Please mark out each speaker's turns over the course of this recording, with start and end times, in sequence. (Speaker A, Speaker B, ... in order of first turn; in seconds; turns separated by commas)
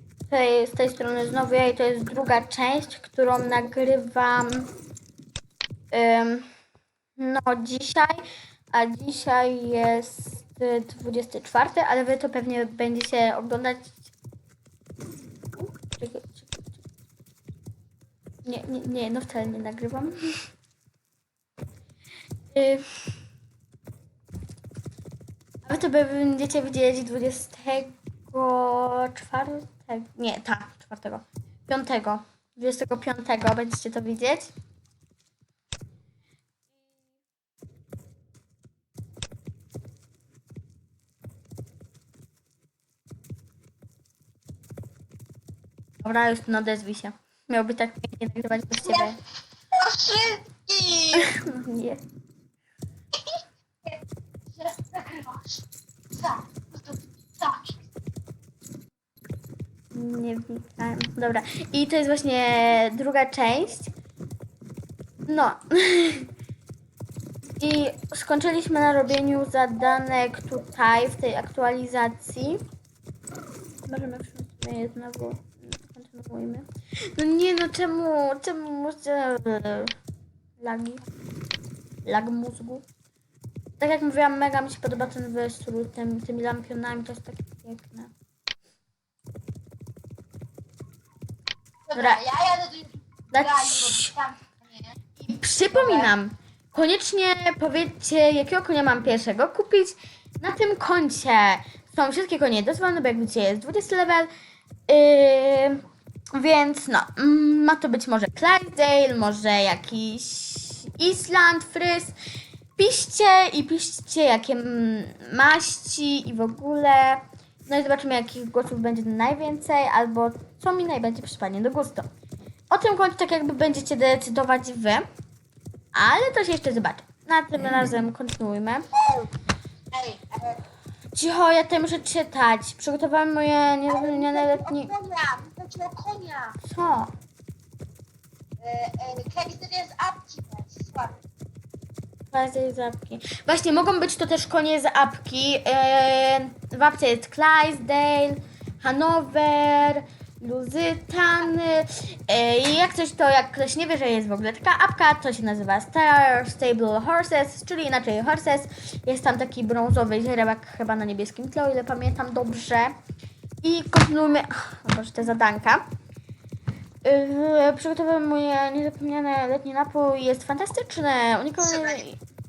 Speaker A: 0.3-4.7, Speaker A: 5.9-6.5, Speaker A: 7.2-14.1, Speaker A: 15.6-16.8, Speaker A: 18.5-20.1, Speaker A: 22.5-23.2, Speaker A: 25.7-34.5, Speaker A: 46.0-49.2, Speaker B: 49.7-51.3, Speaker A: 51.1-52.0, Speaker B: 54.6-57.8, Speaker A: 59.9-63.9, Speaker A: 65.3-66.3, Speaker A: 67.6-72.6, Speaker A: 73.9-80.0, Speaker A: 80.6-81.0, Speaker A: 82.0-82.8, Speaker A: 83.8-88.1, Speaker B: 91.9-94.8, Speaker A: 91.9-92.3, Speaker A: 93.3-94.2, Speaker A: 95.2-104.3, Speaker B: 95.8-96.1, Speaker A: 104.9-112.2, Speaker A: 112.8-122.1, Speaker A: 122.7-125.1, Speaker A: 125.9-128.9, Speaker B: 129.0-129.3, Speaker B: 129.9-130.6, Speaker A: 131.1-134.9, Speaker B: 133.9-136.6, Speaker A: 136.6-137.1, Speaker B: 138.6-141.2, Speaker A: 142.3-162.9, Speaker A: 163.6-165.8, Speaker A: 167.0-172.2